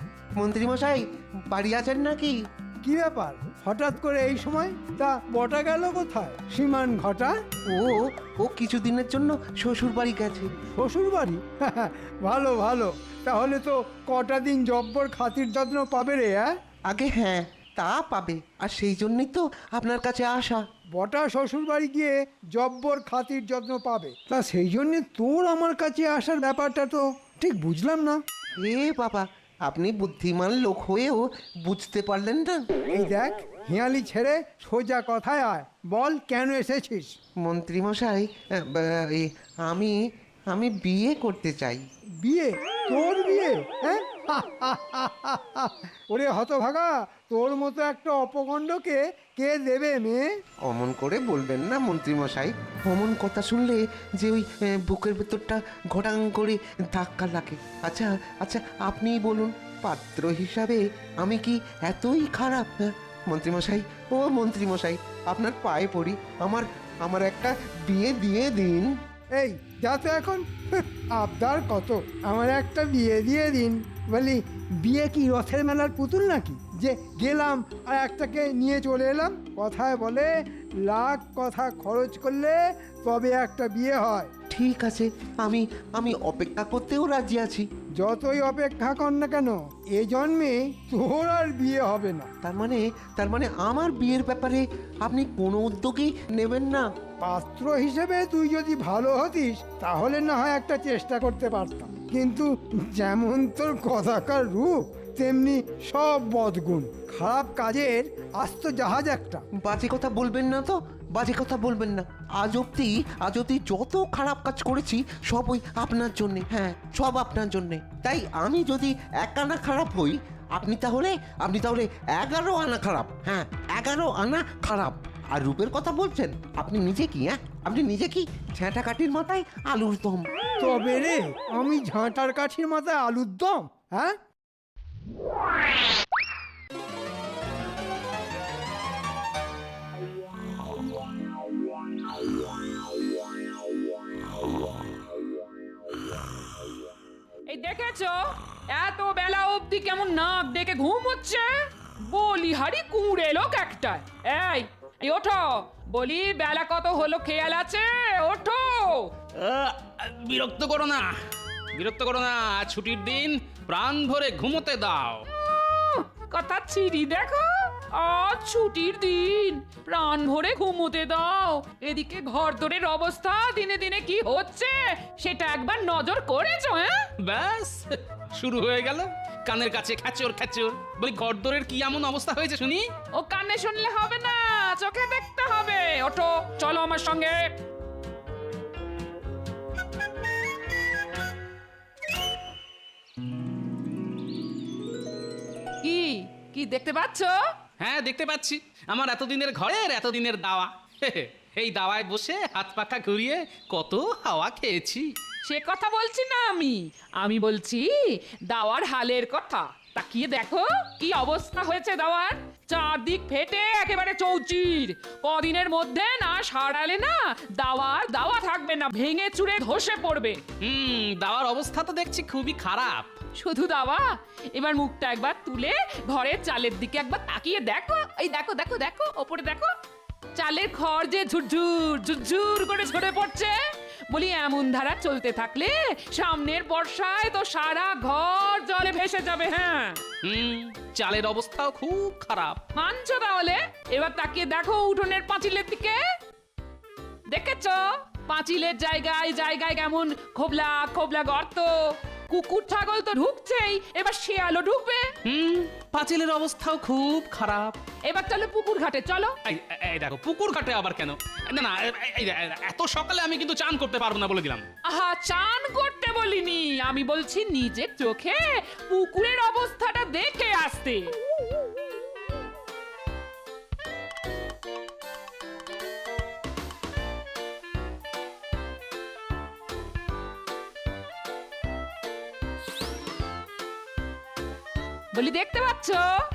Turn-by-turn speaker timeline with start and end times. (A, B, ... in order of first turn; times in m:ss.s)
0:00.4-0:02.4 A
0:02.8-0:07.3 B
0:07.7-0:10.5 A
0:10.8-0:16.5 B
0:16.9-0:20.6 A
0:20.9-0:28.2 B
0:28.6-0:32.6 A
0:32.9-0:37.1 B
0:37.4-0:40.0 A
0:40.5-0:41.8 A
0:42.2-0:50.2 B
0:50.6-1:08.9 A
1:09.3-1:20.3 B
1:20.8-1:24.3 B
1:24.5-1:27.6 A
1:28.0-1:32.3 B
1:32.4-1:36.8 A
1:37.2-1:49.4 B
1:49.6-2:10.3 A
2:10.6-2:14.2 B
2:27.5-2:31.5 C
2:32.0-2:39.1 C
2:39.4-2:41.2 D
2:41.7-2:45.3 D
2:45.5-2:57.1 C
2:57.2-3:02.9 D
3:03.1-3:07.4 C
3:15.8-3:17.3 C
3:17.8-3:25.1 D
3:25.4-3:40.4 C
3:40.6-3:43.2 D
3:43.4-3:49.7 C
3:50.4-3:53.5 C
3:54.1-4:00.0 C
4:00.2-4:02.6 D
4:02.7-4:06.0 C
4:07.3-4:15.1 C
4:15.2-4:17.8 D
4:18.0-4:19.4 C
4:19.4-4:24.6 D
4:24.8-4:31.1 C
4:45.1-4:46.1 C